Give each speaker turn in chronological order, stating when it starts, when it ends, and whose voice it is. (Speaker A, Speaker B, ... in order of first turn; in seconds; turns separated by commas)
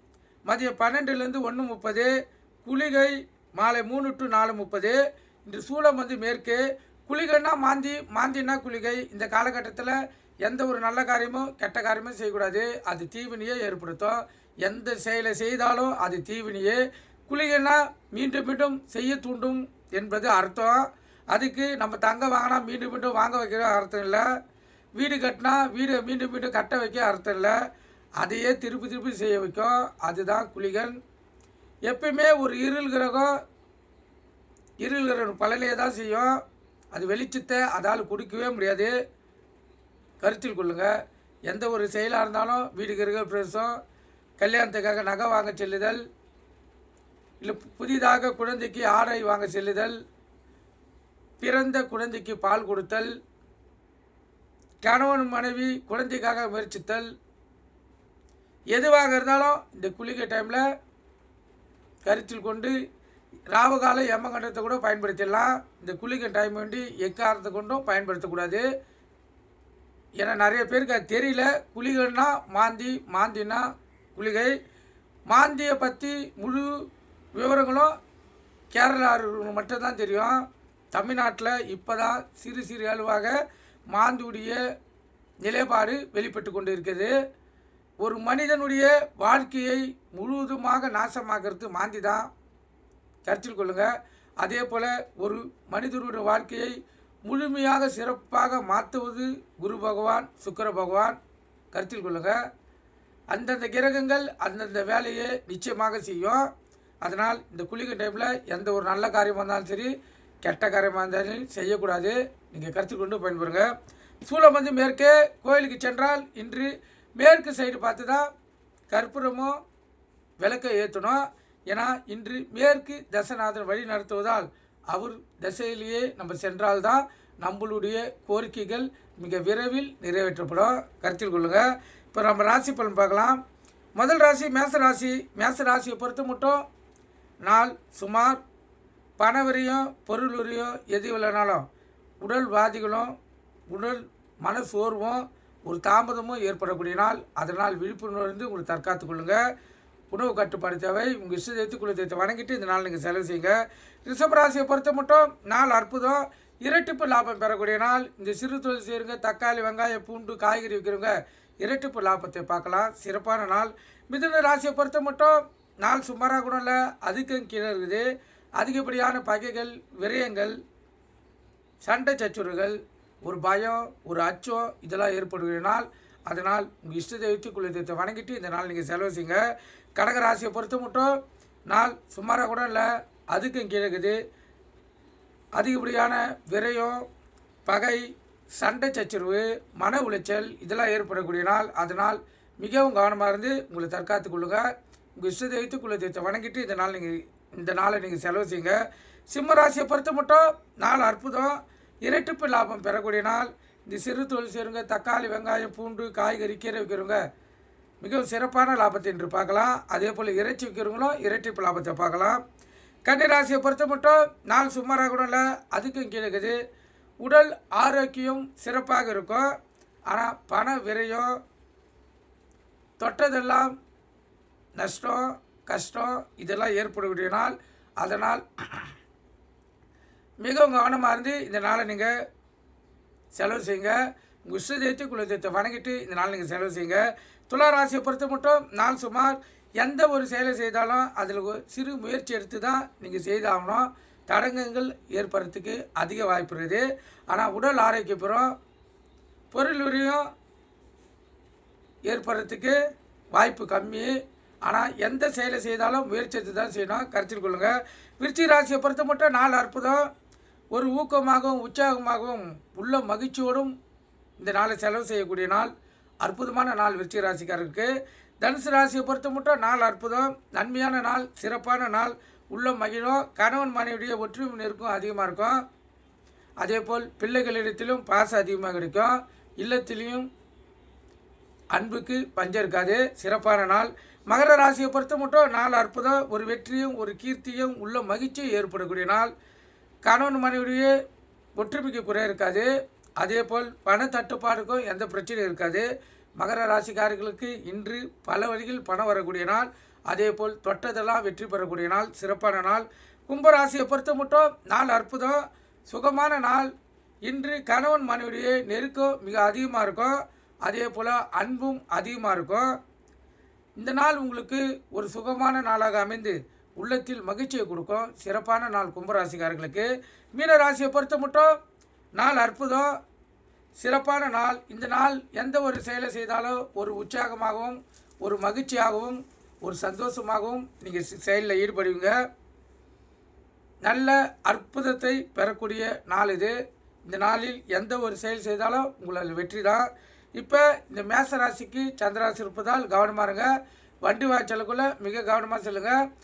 Speaker A: 0.5-2.1, Speaker A: 2.6-24.2, Speaker A: 25.0-27.6, Speaker A: 28.2-31.0, Speaker A: 31.9-33.3, Speaker A: 34.8-36.4, Speaker A: 36.9-38.9, Speaker A: 40.2-40.9, Speaker A: 41.5-43.7, Speaker A: 44.4-46.0, Speaker A: 47.4-50.0, Speaker A: 51.4-53.1, Speaker A: 54.8-57.1, Speaker A: 58.7-60.6, Speaker A: 62.1-62.8, Speaker A: 63.5-68.7, Speaker A: 70.2-74.5, Speaker A: 75.3-76.7, Speaker A: 77.4-77.9, Speaker A: 78.7-80.4, Speaker A: 80.9-83.4, Speaker A: 83.9-84.6, Speaker A: 85.4-87.1, Speaker A: 88.0-92.3, Speaker A: 93.2-101.2, Speaker A: 101.7-102.4, Speaker A: 103.3-106.5, Speaker A: 107.0-113.7, Speaker A: 114.2-118.2, Speaker A: 118.9-119.6, Speaker A: 120.4-133.4, Speaker A: 134.0-136.6, Speaker A: 137.4-138.4, Speaker A: 139.2-141.7, Speaker A: 142.2-143.1, Speaker A: 143.7-149.4, Speaker A: 150.1-168.1, Speaker A: 168.6-170.6, Speaker A: 171.8-179.4, Speaker A: 180.0-181.2, Speaker A: 181.7-184.2, Speaker A: 185.6-187.1, Speaker A: 187.7-188.1, Speaker A: 188.6-194.7, Speaker A: 195.2-198.8, Speaker A: 199.3-207.2, Speaker A: 208.0-212.4, Speaker A: 213.1-216.6, Speaker A: 217.2-219.5, Speaker A: 220.1-221.4, Speaker A: 223.0-223.7, Speaker A: 224.8-228.9, Speaker A: 230.4-232.2, Speaker A: 233.3-248.5, Speaker A: 249.5-250.3, Speaker A: 252.1-252.8, Speaker A: 253.3-254.1, Speaker A: 254.6-260.1, Speaker A: 260.7-263.7, Speaker A: 264.4-265.7, Speaker A: 266.2-275.6, Speaker A: 276.6-280.3, Speaker A: 281.7-289.3, Speaker A: 290.1-290.9, Speaker A: 291.6-292.7, Speaker A: 293.2-295.9, Speaker A: 296.4-306.7, Speaker A: 307.3-312.7, Speaker A: 313.8-321.5, Speaker A: 322.2-322.9, Speaker A: 323.8-332.1, Speaker A: 333.8-336.6, Speaker A: 337.1-343.5, Speaker A: 344.0-346.0